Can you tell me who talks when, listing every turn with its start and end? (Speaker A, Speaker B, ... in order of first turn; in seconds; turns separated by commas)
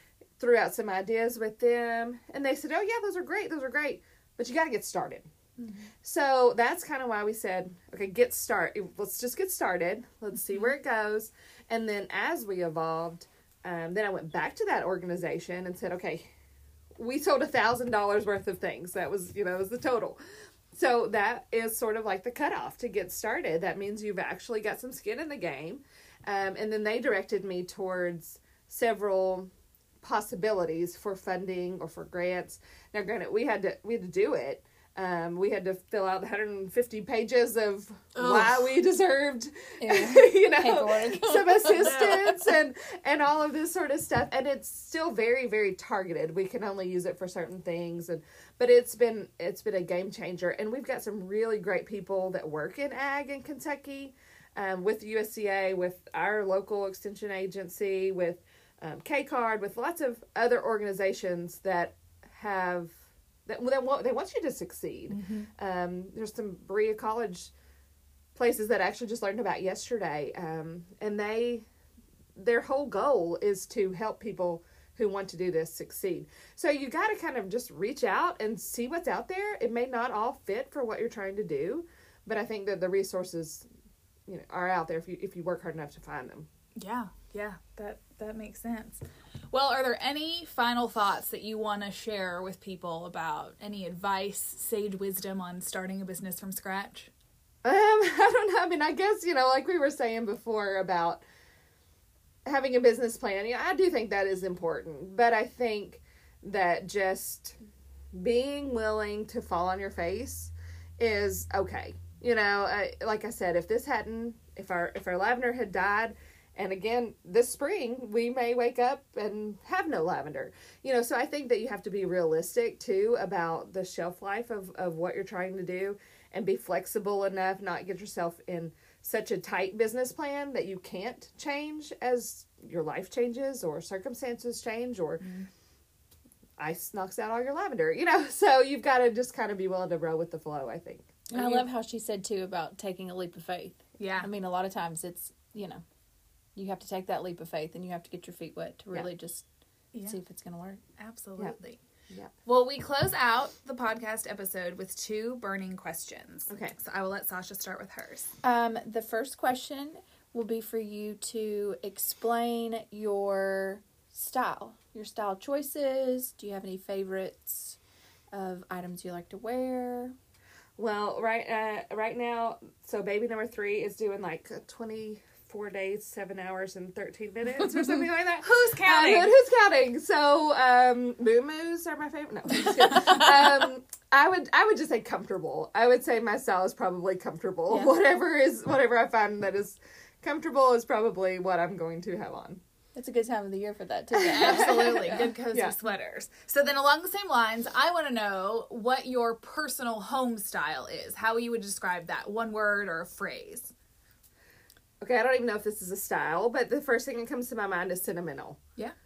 Speaker A: 0.4-5.2, Speaker A: 6.0-16.3, Speaker A: 16.9-20.2, Speaker A: 20.7-29.5, Speaker A: 30.0-67.5, Speaker B: 38.1-38.7, Speaker B: 39.8-42.5, Speaker C: 65.1-65.5, Speaker A: 68.3-71.7, Speaker A: 72.3-83.7, Speaker A: 84.3-86.5, Speaker C: 86.8-97.1, Speaker A: 97.6-101.2, Speaker A: 102.5-107.6, Speaker A: 108.1-135.2, Speaker C: 135.2-135.5, Speaker A: 136.6-141.6, Speaker B: 141.3-145.8, Speaker C: 144.0-144.3, Speaker B: 146.6-149.4, Speaker B: 150.0-150.8, Speaker C: 151.0-151.8, Speaker C: 152.4-158.3, Speaker A: 156.5-156.7, Speaker B: 158.4-167.8, Speaker B: 168.3-170.1, Speaker A: 170.8-192.6, Speaker C: 178.4-179.3, Speaker B: 192.9-195.3, Speaker A: 194.1-195.7, Speaker C: 194.3-203.7, Speaker A: 205.0-208.6